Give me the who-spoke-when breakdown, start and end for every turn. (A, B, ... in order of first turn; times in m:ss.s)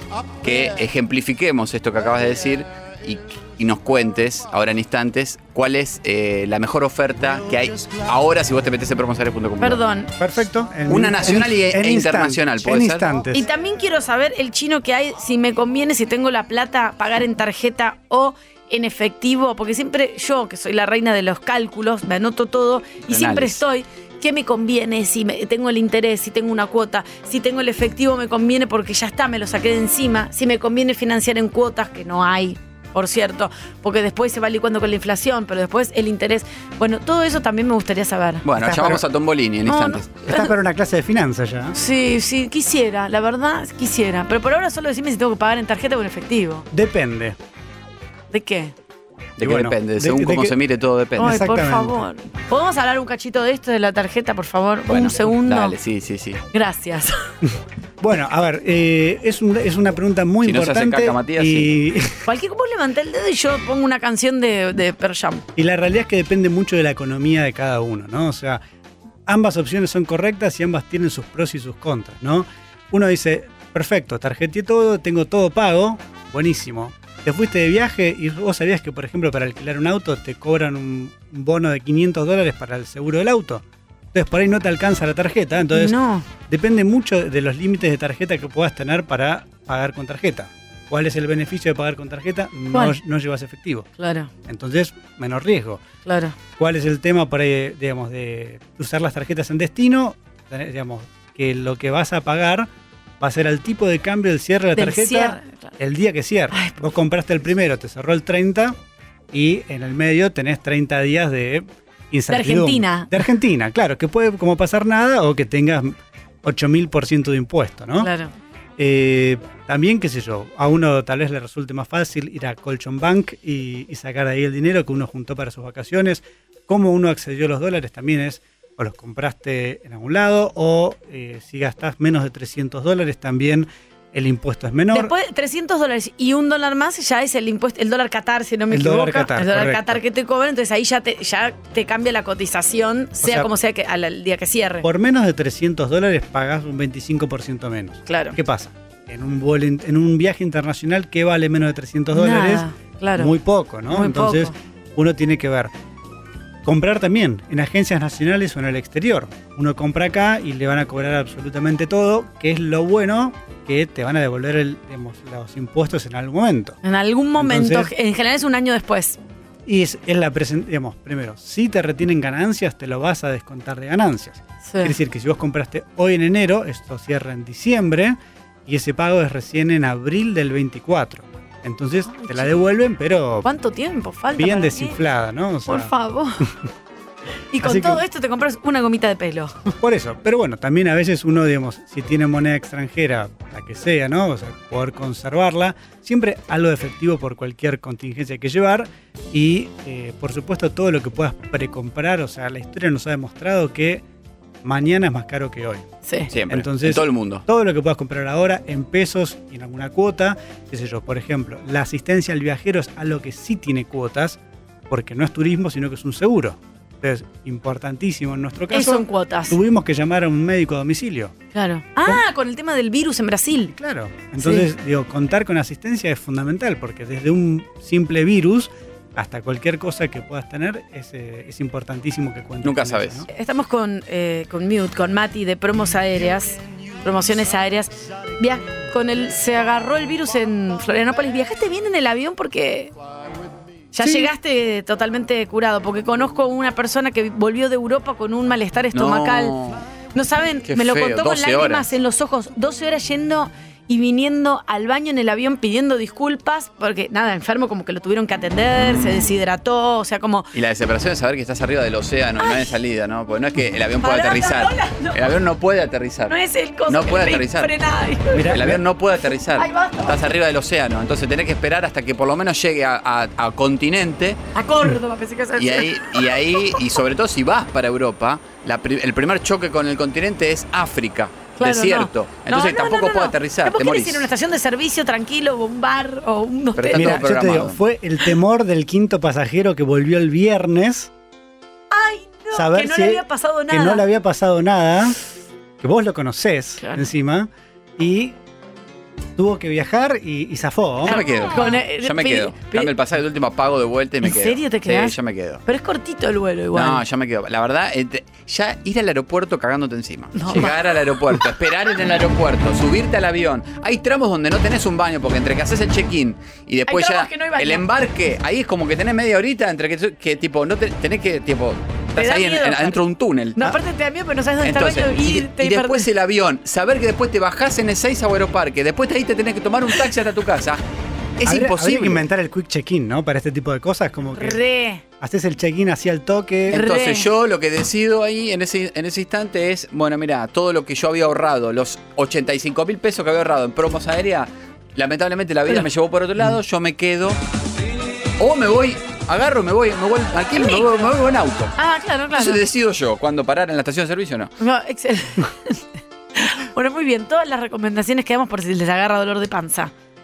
0:00.4-0:09.8 A
0:09.6-0:10.1 B
0:10.2-0:13.4 C
0:10.9-0:13.0 A
0:13.3-0:38.4 B
0:23.1-0:23.6 A
0:38.4-0:40.2 A
0:38.6-0:39.0 C
0:39.6-0:40.5 B
0:40.3-0:41.8 C
0:41.7-0:46.6 B
0:46.7-0:47.4 C
0:48.3-0:48.7 B
0:49.4-0:51.4 A
0:49.4-0:50.6 C
0:51.2-0:52.0 C
0:51.2-0:55.7 B
0:54.9-0:56.4 A
0:56.5-0:57.2 B
0:57.4-1:02.2 C
1:00.4-1:01.7 A
1:02.2-1:05.4 B
1:05.6-1:08.6 C
1:09.2-1:33.9 C
1:25.7-1:26.2 B
1:32.7-1:33.0 B
1:34.0-1:34.3 B
1:34.4-1:35.8 C
1:36.0-1:36.4 B
1:36.6-1:48.8 C
1:44.8-1:45.7 B
1:46.5-1:46.8 B
1:49.3-1:58.1 C
1:52.3-1:53.1 B
1:58.0-1:58.3 B
1:58.8-2:15.1 C
2:14.9-2:24.9 B
2:18.7-2:20.0 C
2:23.2-2:23.5 C
2:24.8-2:32.6 C
2:28.1-2:28.4 B
2:32.1-2:33.3 B
2:33.2-2:35.7 C
2:33.9-2:34.5 B
2:36.6-2:46.8 C
2:46.8-2:49.2 B
2:47.4-2:47.9 C
2:49.6-3:03.5 C
2:54.6-2:55.0 B
3:02.1-3:02.5 B
3:03.4-3:05.0 B
3:04.3-3:05.9 C
3:05.7-3:06.5 B
3:07.5-3:09.7 B
3:07.6-3:08.0 C
3:09.8-3:24.0 C
3:24.6-3:25.8 C
3:26.0-3:26.3 B
3:26.3-3:27.4 A
3:26.5-3:41.3 C
3:38.7-3:39.6 B
3:41.5-3:43.7 B
3:43.7-3:53.3 C
3:44.4-3:44.7 B
3:52.6-3:53.2 A
3:53.3-4:02.9 B
4:03.9-4:09.5 B
4:04.0-4:04.3 C
4:08.9-4:09.8 A
4:10.1-4:20.5 B
4:10.7-4:11.9 A
4:20.5-4:26.4 A
4:22.4-4:22.7 B
4:24.0-4:25.2 B
4:26.3-4:28.5 B
4:26.9-4:27.7 A
4:28.3-4:28.8 C
4:28.5-4:34.4 A
4:29.6-4:30.2 B
4:34.5-4:36.8 B
4:35.6-4:44.3 A
4:41.6-4:47.2 B
4:46.8-4:47.8 A
4:46.9-4:51.1 C
4:51.9-4:54.0 B
4:52.5-4:55.2 C
4:55.8-4:58.4 C
4:56.8-4:57.0 B
4:59.4-5:01.2 C
5:01.0-5:02.9 B
5:01.0-5:05.6 A
5:04.2-5:07.0 B
5:06.7-5:23.7 A
5:10.3-5:10.7 B
5:16.9-5:17.8 B
5:22.2-5:23.0 B
5:23.6-5:26.1 B
5:24.6-5:30.8 A
5:31.4-5:32.2 A
5:31.4-5:34.6 C
5:34.3-5:35.0 B
5:35.2-5:36.8 C
5:36.7-5:37.3 B
5:36.7-5:47.4 A
5:48.4-5:51.7 A
5:50.6-5:51.1 B
5:51.8-5:52.6 B
5:52.3-5:54.5 A
5:54.6-5:55.8 B
5:56.4-5:59.9 B